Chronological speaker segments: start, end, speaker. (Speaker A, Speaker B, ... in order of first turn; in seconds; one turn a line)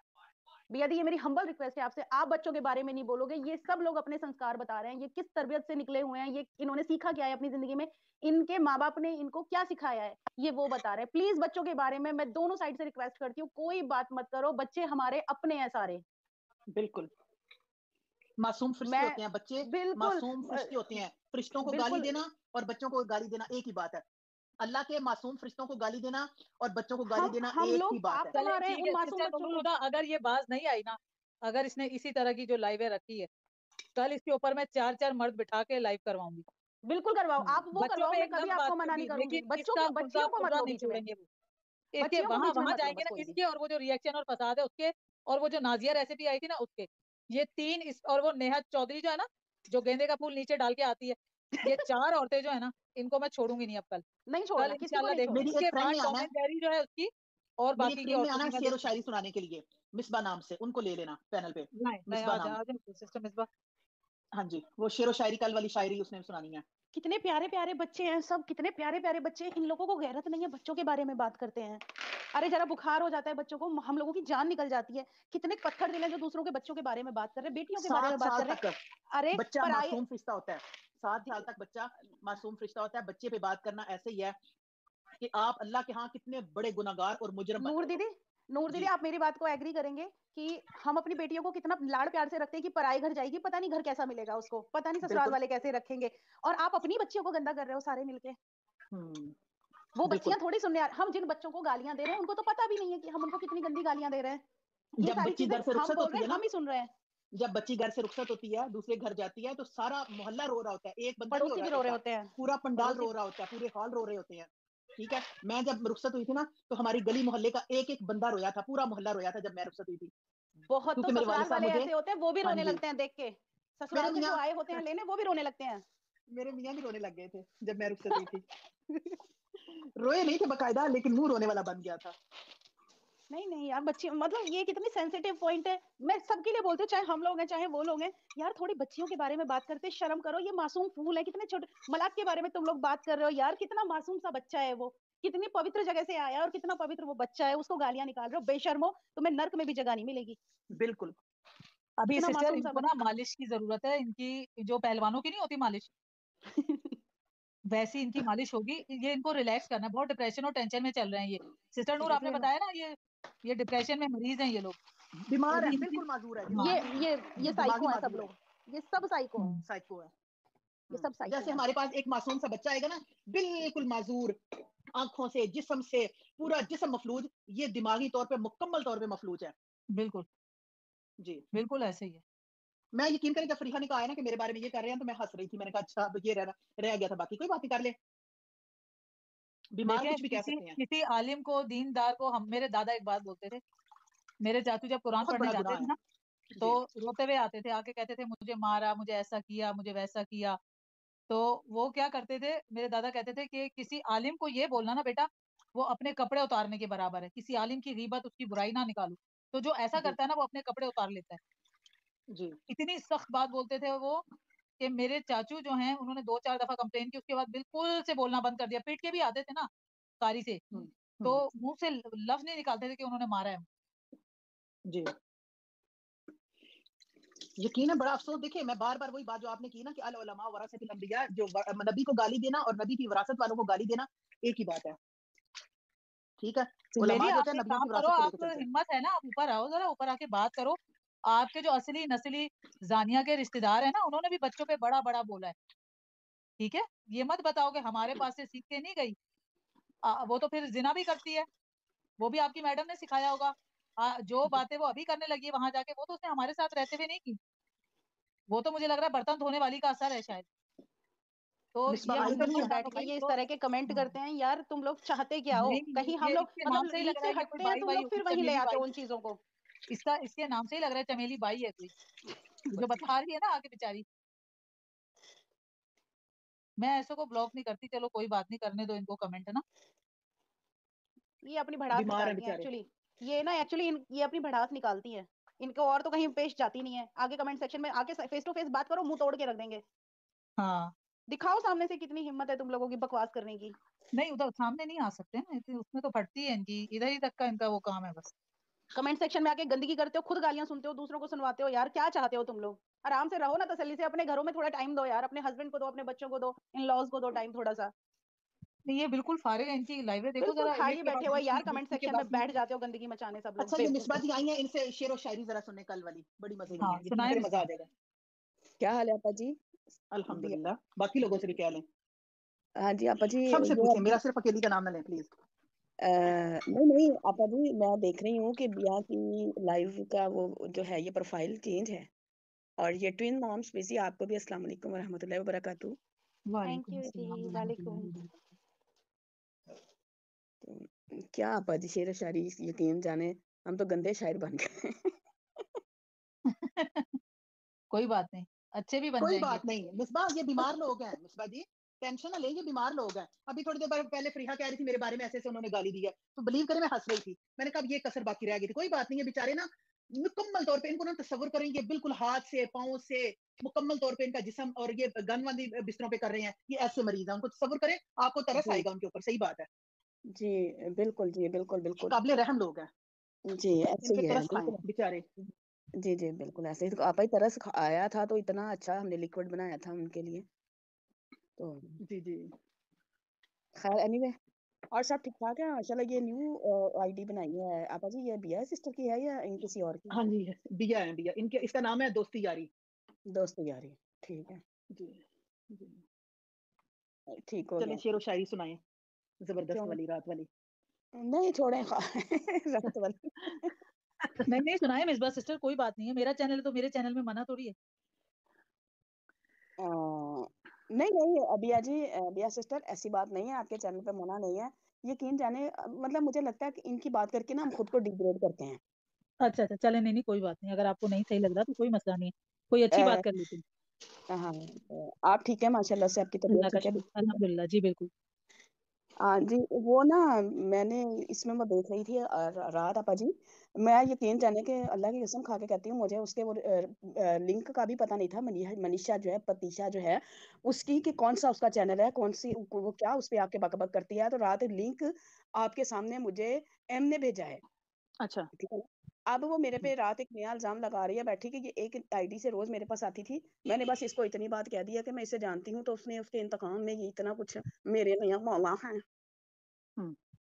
Speaker A: 0.7-16.0
Speaker B: 16.7-17.1
Speaker B: 18.4-24.0
Speaker A: 18.9-21.0
Speaker A: 21.6-22.2
Speaker B: 24.6-28.4
Speaker A: 27.1-29.7
Speaker C: 28.3-33.3
Speaker C: 34.0-36.4
Speaker A: 36.8-41.0
Speaker B: 37.4-37.7
Speaker C: 37.8-41.2
Speaker C: 41.9-54.0
Speaker A: 42.0-43.4
Speaker A: 54.3-55.8
Speaker C: 54.6-58.8
Speaker B: 55.3-56.3
Speaker B: 57.8-62.6
Speaker C: 61.8-63.5
Speaker B: 64.3-66.6
Speaker A: 66.9-78.6
Speaker B: 77.8-78.8
Speaker A: 79.1-80.0
Speaker B: 79.3-84.4
Speaker B: 85.2-87.9
Speaker A: 87.6-98.4
Speaker B: 95.0-95.4
Speaker B: 98.9-99.3
Speaker A: 99.9-104.4
Speaker B: 100.0-100.4
Speaker B: 105.0-106.5
Speaker A: 105.0-106.9
Speaker B: 107.3-120.1
Speaker A: 111.3-113.1
Speaker A: 120.7-125.8
Speaker B: 120.9-121.9
Speaker B: 122.4-122.8
Speaker B: 123.9-124.8
Speaker B: 126.3-128.4
Speaker B: 129.7-132.1
Speaker A: 133.3-150.4
Speaker B: 150.7-151.1
Speaker C: 152.0-155.9
Speaker A: 152.1-152.9
Speaker C: 157.7-164.8
Speaker B: 165.3-168.3
Speaker C: 165.5-166.7
Speaker A: 166.5-169.6
Speaker B: 169.4-170.1
Speaker B: 170.9-174.4
Speaker A: 170.9-171.6
Speaker B: 174.9-179.5
Speaker C: 179.9-180.2
Speaker C: 181.5-182.2
Speaker B: 182.9-187.9
Speaker B: 189.7-190.8
Speaker C: 189.8-193.6
Speaker C: 194.4-195.9
Speaker B: 195.2-195.9
Speaker C: 196.6-200.6
Speaker C: 201.3-211.4
Speaker B: 212.3-212.6
Speaker C: 212.7-214.2
Speaker C: 214.8-219.7
Speaker C: 220.2-220.6
Speaker B: 220.7-221.4
Speaker C: 221.2-223.6
Speaker B: 224.8-225.1
Speaker B: 227.6-235.0
Speaker B: 236.4-238.7
Speaker C: 237.0-245.5
Speaker C: 246.6-249.2
Speaker C: 250.0-251.5
Speaker C: 252.2-257.4
Speaker C: 258.5-260.4
Speaker C: 261.7-263.3
Speaker B: 261.9-262.8
Speaker A: 262.0-269.4
Speaker C: 265.5-268.8
Speaker C: 269.9-271.9
Speaker C: 272.7-274.0
Speaker C: 276.8-279.6
Speaker A: 281.4-289.8
Speaker B: 281.9-282.7
Speaker C: 290.6-290.9
Speaker A: 291.3-293.7
Speaker C: 294.1-298.3
Speaker A: 298.9-307.9
Speaker C: 308.9-312.2
Speaker A: 310.4-314.2
Speaker B: 311.2-312.4
Speaker B: 313.6-317.9
Speaker C: 316.8-317.5
Speaker D: 318.8-319.6
Speaker B: 320.1-321.8
Speaker D: 320.3-320.6
Speaker D: 322.8-324.2
Speaker B: 323.5-325.3
Speaker D: 326.0-332.1
Speaker D: 332.8-336.0
Speaker B: 336.5-338.0
Speaker C: 336.7-337.7
Speaker D: 340.6-345.1
Speaker C: 346.5-347.2
Speaker C: 347.9-349.6
Speaker B: 349.2-369.7
Speaker D: 368.5-368.9
Speaker D: 370.3-372.2
Speaker B: 372.1-372.9
Speaker D: 373.5-374.8
Speaker B: 374.0-375.2
Speaker D: 376.0-380.4
Speaker D: 381.6-382.0
Speaker B: 382.0-382.5
Speaker D: 383.8-384.4
Speaker D: 384.9-390.1
Speaker B: 390.1-392.7
Speaker D: 393.3-394.6
Speaker B: 394.9-396.0
Speaker D: 397.3-398.0
Speaker B: 397.8-398.8
Speaker B: 399.4-400.5
Speaker D: 399.7-400.0
Speaker D: 401.1-403.3
Speaker C: 404.4-407.7
Speaker D: 409.8-418.8
Speaker C: 419.4-423.6
Speaker D: 422.9-423.2
Speaker D: 424.3-427.0
Speaker C: 426.5-428.1
Speaker D: 429.2-447.6
Speaker B: 448.2-448.5
Speaker D: 448.6-459.0